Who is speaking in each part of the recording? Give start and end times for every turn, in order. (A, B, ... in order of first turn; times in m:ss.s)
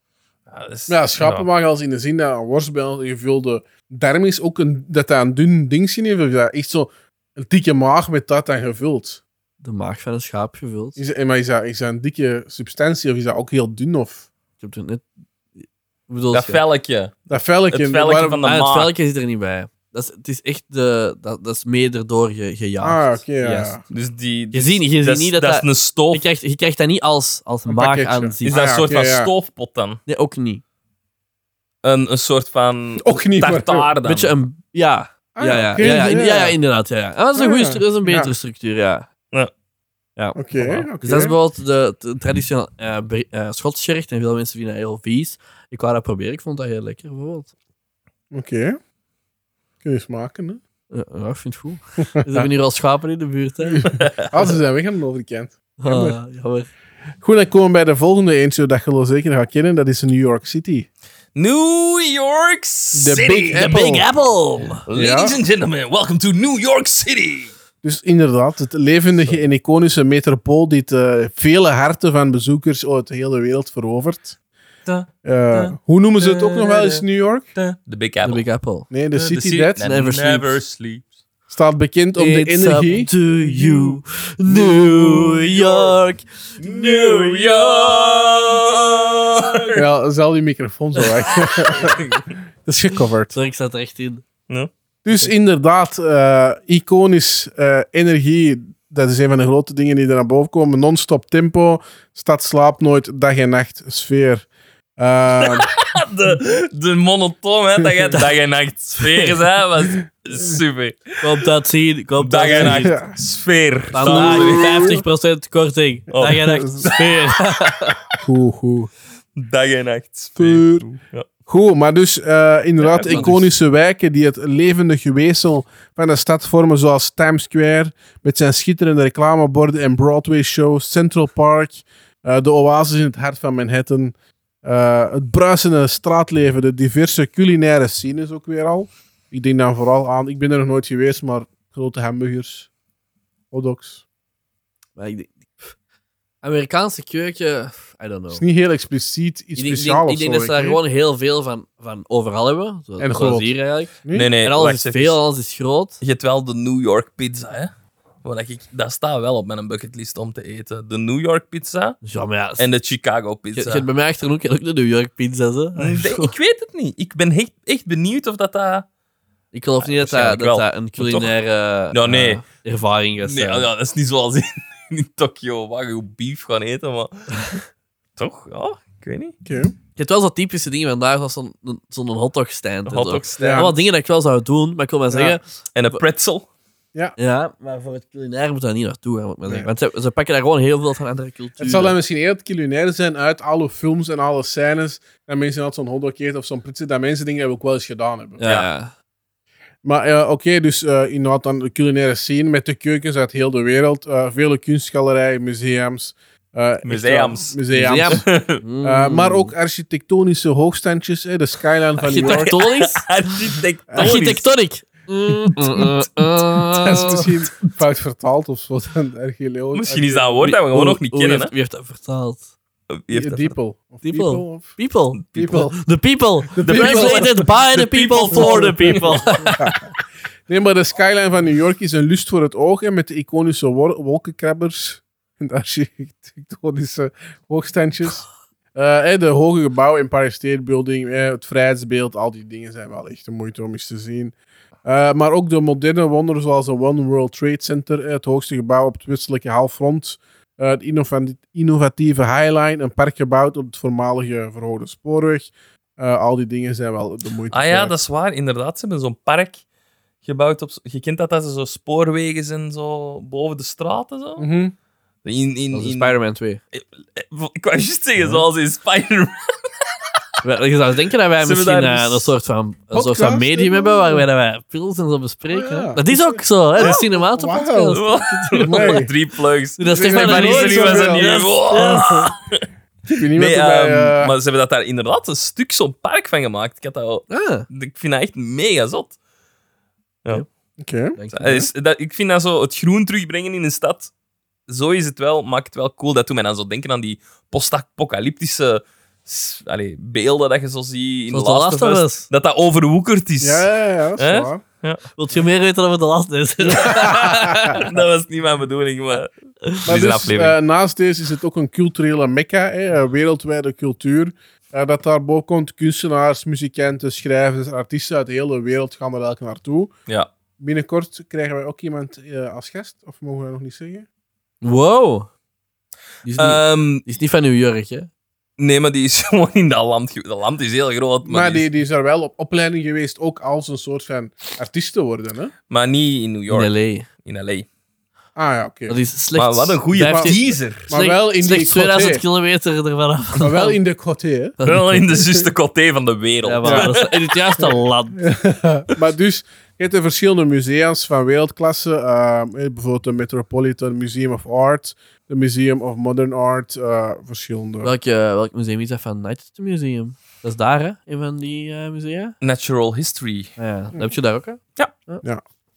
0:00.5-0:01.5 A
0:00.9-0:09.2 B
0:09.6-0:11.0 C
0:11.0-0:14.3 B
0:14.6-0:15.0 C
0:15.6-0:16.6 C
0:16.3-0:17.2 A
0:17.3-0:18.4 B
0:17.7-0:18.9 A
0:18.4-0:23.7 C
0:22.8-0:23.8 B
0:23.9-0:26.2 A
0:24.5-0:28.6 C
0:27.7-0:29.3 B
0:28.4-0:30.0 A
0:30.1-0:30.6 C
0:31.8-0:34.3 A
0:33.0-0:33.9 B
0:34.0-0:39.1 C
0:35.3-0:36.6 B
0:37.3-0:38.3 B
0:40.2-0:47.5 C
0:40.4-0:41.3 B
0:48.3-0:48.8 B
0:49.8-0:50.6 B
0:50.9-0:54.0 C
0:52.2-0:52.5 B
0:53.6-0:56.2 B
0:55.8-0:56.7 C
0:57.2-1:00.9 B
1:01.3-1:03.9 A
1:02.9-1:04.0 B
1:03.5-1:04.8 C
1:04.8-1:07.5 A
1:04.9-1:05.4 B
1:07.8-1:14.3 B
1:14.8-1:17.0 A
1:15.2-1:17.5 B
1:17.6-1:18.4 A
1:18.2-1:18.9 C
1:18.9-1:19.8 B
1:19.1-1:21.1 A
1:19.8-1:20.6 C
1:21.5-1:23.1 B
1:22.2-1:27.4 C
1:23.4-1:25.9 A
1:26.6-1:29.8 A
1:29.7-1:32.1 B
1:31.0-1:32.3 A
1:32.6-1:33.3 B
1:33.3-1:34.2 C
1:35.0-1:45.7 B
1:45.4-1:51.4 A
1:51.2-1:53.0 C
1:52.2-1:54.9 A
1:52.5-1:53.2 B
1:53.9-1:57.9 C
1:54.0-1:55.0 B
1:56.1-1:57.5 A
1:56.2-1:56.9 B
1:58.2-1:58.9 B
1:59.4-2:01.3 A
2:00.4-2:00.9 B
2:01.5-2:22.7 B
2:02.8-2:03.4 A
2:03.0-2:03.4 C
2:23.5-2:24.0 B
2:25.0-2:25.7 C
2:26.4-2:28.4 C
2:28.3-2:30.8 B
2:29.6-2:36.0 C
2:33.0-2:33.5 B
2:34.0-2:34.3 B
2:34.1-2:35.2 A
2:36.0-2:37.7 A
2:38.2-2:42.0 A
2:42.0-2:42.6 C
2:42.6-2:43.8 A
2:43.5-2:46.3 C
2:45.8-2:48.8 A
2:49.5-2:53.7 C
2:49.8-2:51.3 A
2:51.9-2:52.4 A
2:53.2-2:57.6 A
2:58.2-2:59.4 A
2:59.4-2:59.7 B
3:00.0-3:06.0 C
3:02.9-3:03.7 A
3:03.4-3:03.7 B
3:05.1-3:05.4 B
3:05.7-3:06.5 A
3:07.2-3:12.0 C
3:11.6-3:18.4 B
3:18.4-3:18.9 C
3:18.4-3:18.7 A
3:19.8-3:28.2 B
3:26.8-3:28.6 A
3:27.7-3:29.5 C
3:28.8-3:32.6 B
3:32.0-3:33.1 C
3:32.2-3:34.4 A
3:33.9-3:34.2 B
3:34.0-3:37.3 C
3:36.8-3:40.4 B
3:36.9-3:37.3 A
3:39.7-3:41.5 A
3:40.4-3:42.5 C
3:42.9-3:43.5 A
3:43.1-3:44.8 B
3:44.0-3:49.8 C
3:45.3-3:45.7 B
3:46.5-3:47.5 B
3:46.6-3:49.4 A
3:48.2-3:49.9 B
3:50.5-4:04.3 B
4:04.8-4:17.9 B
4:17.5-4:19.6 A
4:20.2-4:24.5 A
4:24.4-4:24.7 B
4:25.2-4:26.1 A
4:25.7-4:26.6 C
4:26.7-4:29.7 A
4:30.4-4:39.0 C
4:31.4-4:32.3 A
4:32.9-4:34.2 B
4:35.5-4:38.0 B
4:37.9-4:42.6 A
4:38.6-4:39.1 B
4:39.8-4:42.3 C
4:39.9-4:42.0 B
4:43.1-4:44.3 B
4:43.4-4:49.2 A
4:47.3-4:47.6 C
4:50.8-4:51.2 B
4:51.2-4:51.7 C
4:51.3-4:54.1 A
4:54.7-5:03.7 A
5:01.3-5:02.3 C
5:03.4-5:04.6 B
5:04.2-5:05.0 A
5:05.2-5:07.8 C
5:06.6-5:07.8 B
5:07.8-5:10.5 A
5:09.8-5:19.9 B
5:20.6-5:24.0 B
5:24.6-5:25.3 C
5:26.2-5:28.1 C
5:26.4-5:27.0 A
5:28.6-5:31.6 A
5:31.2-5:35.5 B
5:35.7-5:37.6 A
5:36.5-5:37.1 C
5:38.4-5:39.0 B
5:38.9-5:43.8 C
5:39.4-5:40.9 A
5:40.0-5:40.4 B
5:40.9-5:42.2 B
5:43.4-5:44.6 B
5:44.6-5:45.0 C
5:44.6-5:47.3 A
5:46.4-5:48.2 C
5:46.6-5:46.9 B
5:48.2-5:57.9 B
5:57.8-6:02.4 C
6:02.4-6:03.5 A
6:03.6-6:05.2 C